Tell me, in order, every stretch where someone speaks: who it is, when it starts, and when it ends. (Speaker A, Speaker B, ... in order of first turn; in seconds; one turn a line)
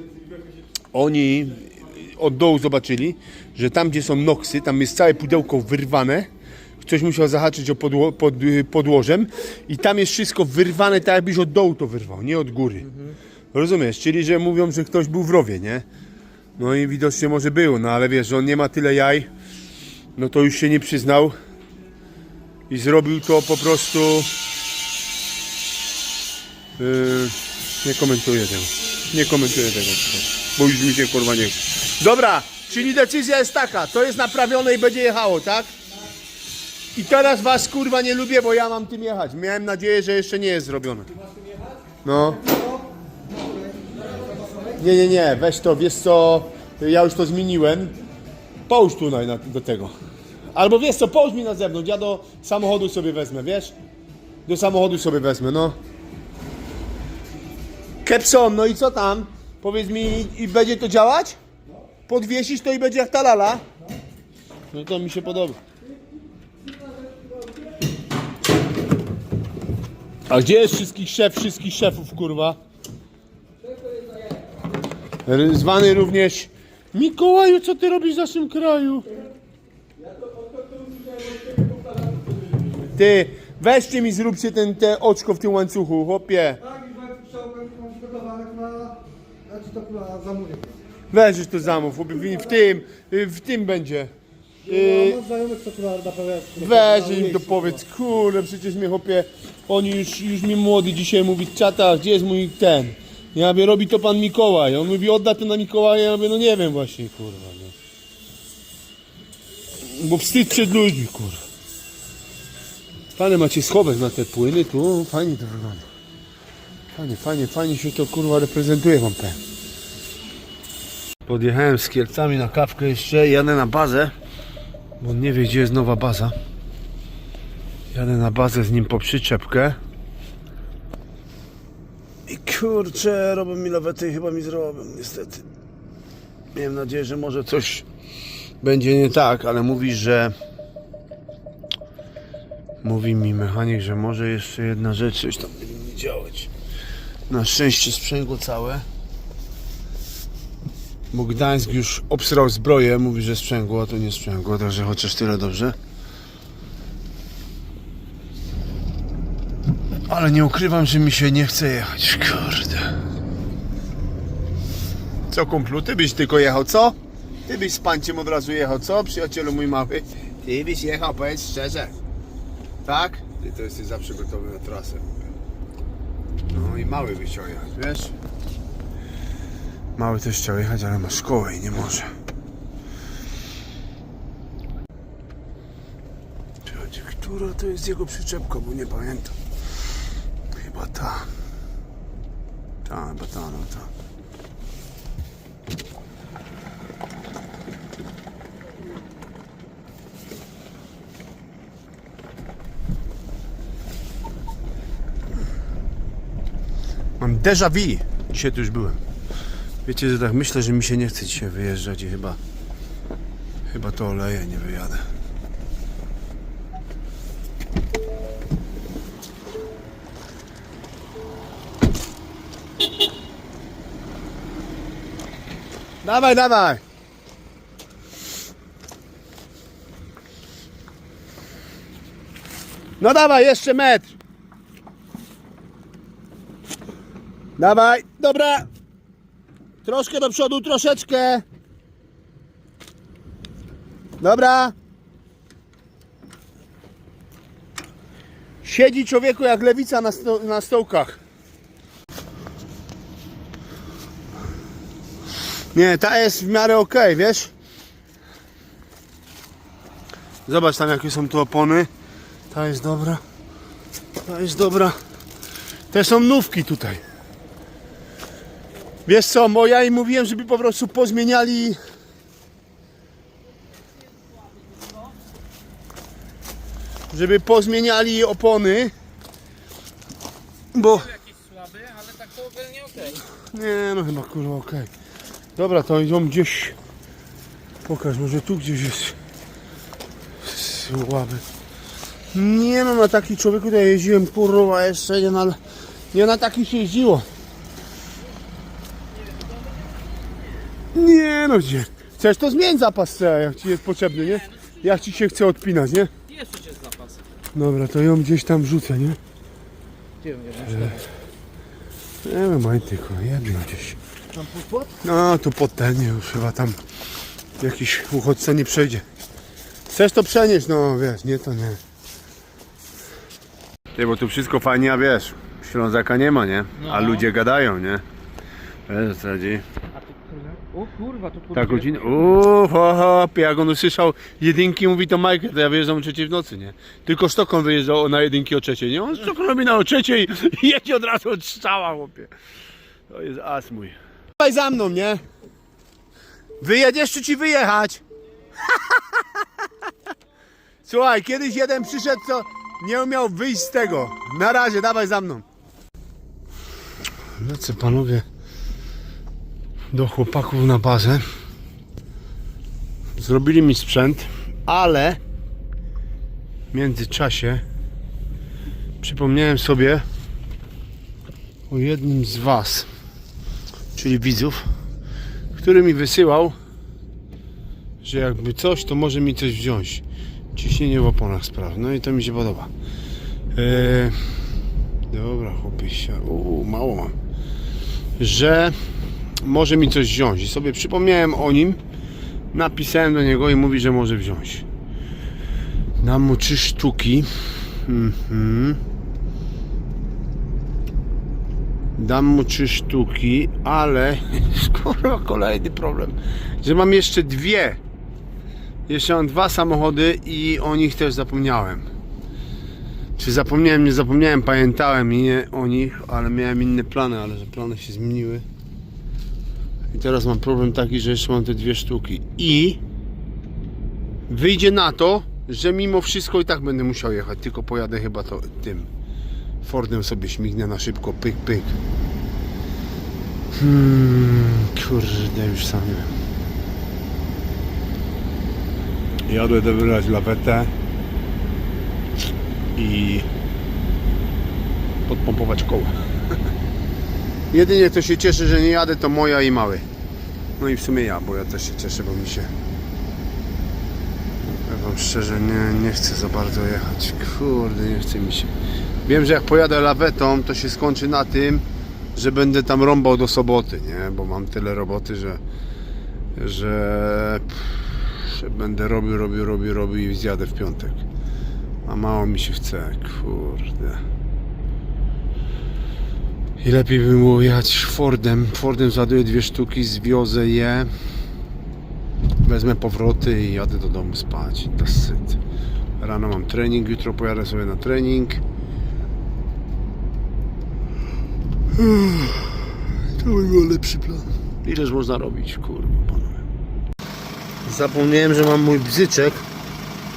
Speaker A: 0.9-12.9
Speaker A: 13.5-15.8
Speaker A: 16.6-19.3
Speaker A: 20.2-21.4
Speaker A: 22.7-24.3
Speaker A: 26.8-35.7
Speaker A: 36.9-41.1
Speaker B: 41.2-41.8
Speaker A: 42.0-42.4
Speaker B: 42.4-44.8
Speaker A: 44.8-48.0
Speaker A: 48.7-49.9
Speaker A: 50.5-53.7
Speaker A: 54.5-55.8
Speaker A: 58.0-61.4
Speaker A: 62.1-63.6
Speaker A: 64.7-65.6
Speaker A: 70.3-72.6
Speaker A: 75.2-79.1
Speaker B: 80.4-82.8
Speaker A: 83.0-86.6
Speaker B: 86.7-90.7
Speaker A: 91.1-94.1
Speaker A: 94.7-95.2
Speaker B: 94.7-97.8
Speaker A: 96.5-107.8
Speaker A: 109.8-111.4
Speaker A: 113.2-115.9
Speaker A: 116.9-119.4
Speaker A: 121.3-124.1
Speaker A: 125.0-126.3
Speaker A: 127.9-129.8
Speaker A: 132.3-135.4
Speaker A: 136.5-137.8
Speaker A: 138.6-140.3
Speaker A: 142.8-146.5
Speaker A: 147.3-148.8
Speaker A: 151.1-155.8
Speaker A: 160.1-162.9
Speaker A: 165.3-171.9
Speaker A: 172.8-175.3
Speaker A: 176.5-178.2
Speaker A: 180.0-182.1
Speaker A: 186.7-189.3
Speaker A: 190.5-191.3
Speaker A: 192.8-193.9
Speaker A: 207.2-209.0
Speaker A: 209.8-212.4
Speaker A: 213.7-215.1
Speaker A: 226.0-226.8
Speaker A: 233.0-234.2
Speaker A: 237.6-238.7
Speaker A: 239.8-241.4
Speaker A: 244.2-244.8
Speaker A: 248.6-251.2
Speaker A: 255.7-257.5
Speaker A: 260.5-261.9
Speaker A: 262.5-263.2
Speaker A: 264.2-264.9
Speaker A: 265.9-267.0
Speaker A: 269.1-271.8
Speaker A: 277.1-278.9
Speaker A: 280.7-281.2
Speaker C: 281.1-283.2
Speaker A: 283.4-284.9
Speaker A: 285.6-286.8
Speaker A: 287.9-289.2
Speaker A: 290.4-291.4
Speaker A: 292.3-295.6
Speaker A: 296.1-297.3
Speaker A: 300.9-306.1
Speaker C: 306.3-307.2
Speaker A: 307.6-309.2
Speaker C: 310.2-311.1
Speaker A: 310.6-311.0
Speaker A: 312.2-314.0
Speaker C: 314.4-314.9
Speaker A: 315.0-316.8
Speaker A: 317.6-319.1
Speaker A: 319.9-321.8
Speaker A: 323.9-328.0
Speaker C: 326.8-327.2
Speaker A: 328.9-329.6
Speaker C: 330.0-332.4
Speaker A: 331.5-342.3
Speaker A: 343.1-345.2
Speaker A: 346.6-348.0
Speaker A: 348.6-349.4
Speaker A: 350.9-355.4
Speaker A: 357.4-358.3
Speaker A: 359.9-361.2
Speaker A: 363.2-365.2
Speaker A: 366.7-367.6
Speaker A: 369.0-370.1
Speaker A: 371.7-372.9
Speaker A: 373.9-374.6
Speaker A: 375.6-376.6
Speaker A: 378.0-382.7
Speaker A: 383.5-384.2
Speaker A: 385.1-387.1
Speaker A: 388.2-388.8
Speaker A: 389.4-391.8
Speaker A: 392.5-394.7
Speaker A: 396.0-398.8
Speaker A: 402.0-407.8
Speaker A: 408.9-411.9
Speaker A: 413.2-418.4
Speaker A: 419.9-422.8
Speaker A: 424.3-428.9
Speaker A: 429.6-431.8
Speaker A: 433.5-436.1
Speaker A: 439.3-440.7
Speaker A: 442.8-443.3
Speaker A: 445.1-446.4
Speaker A: 447.5-449.9
Speaker A: 450.6-452.5
Speaker A: 454.4-458.5
Speaker A: 459.1-461.6
Speaker A: 462.1-465.4
Speaker A: 466.4-471.1
Speaker A: 471.9-474.0
Speaker A: 476.6-480.9
Speaker A: 482.4-485.4
Speaker A: 486.0-488.4
Speaker A: 491.7-496.4
Speaker A: 497.6-499.5